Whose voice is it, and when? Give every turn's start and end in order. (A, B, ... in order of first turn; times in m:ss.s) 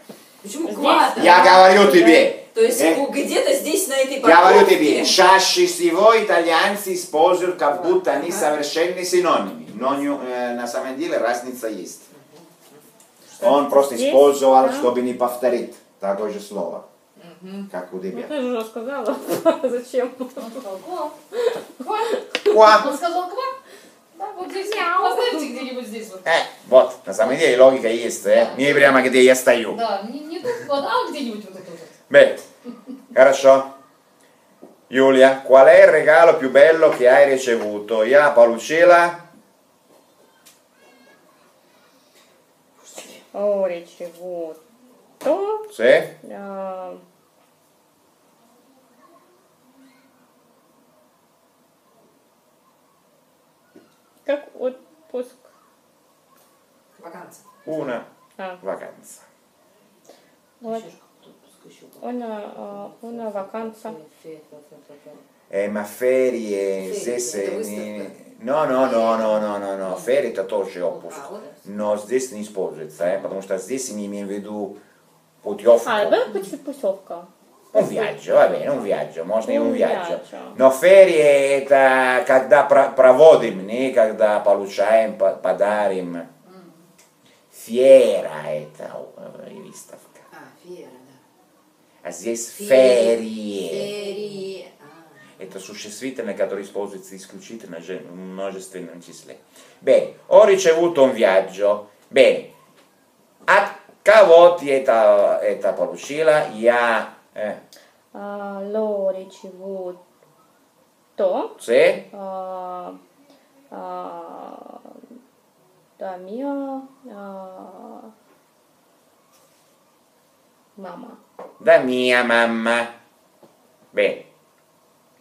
0:00.4-0:05.2 A
0:00.6-0:02.3 B
0:01.2-0:03.0 C
0:04.2-0:12.1 C
0:07.7-0:08.5 A
0:12.1-0:12.8 A
0:13.4-0:16.9 C
0:13.4-0:14.9 B
0:17.2-0:17.7 A
0:17.7-0:18.4 C
0:18.1-0:20.6 B
0:20.4-0:21.2 D
0:21.3-0:22.9 B
0:22.5-0:22.9 C
0:22.6-0:23.6 D
0:24.1-0:26.3 D
0:24.5-0:25.5 B
0:26.2-0:29.8 C
0:28.2-0:29.1 D
0:29.7-0:32.0 D
0:32.1-0:32.5 C
0:33.1-0:33.7 C
0:34.9-0:39.2 C
0:42.8-0:43.2 A
0:43.3-0:44.6 B
0:45.2-0:45.7 B
0:45.7-0:46.1 C
0:46.2-0:47.0 B
0:54.2-0:55.5 B
0:57.0-0:57.4 A
0:57.6-0:58.1 C
0:58.6-0:59.2 C
1:00.6-1:00.9 B
1:00.6-1:01.4 D
1:01.4-1:02.0 A
1:02.0-1:04.0 B
1:02.6-1:05.2 D
1:05.5-1:14.8 C
1:06.8-1:08.2 A
1:08.8-1:09.4 A
1:10.9-1:11.6 A
1:15.4-1:16.3 C
1:15.8-1:18.8 B
1:17.7-1:26.3 C
1:19.4-1:20.6 B
1:26.4-1:26.9 D
1:27.5-1:30.2 C
1:30.3-1:31.2 A
1:32.0-1:33.9 C
1:32.5-1:35.3 A
1:34.0-1:34.4 D
1:35.4-1:42.5 C
1:43.5-1:47.6 C
1:48.1-1:50.0 B
1:51.2-1:51.6 B
1:51.6-1:52.0 C
1:52.1-1:53.0 B
1:53.7-1:55.0 B
1:56.0-1:58.1 B
2:00.8-2:01.2 B
2:01.6-2:02.9 C
2:03.9-2:04.2 C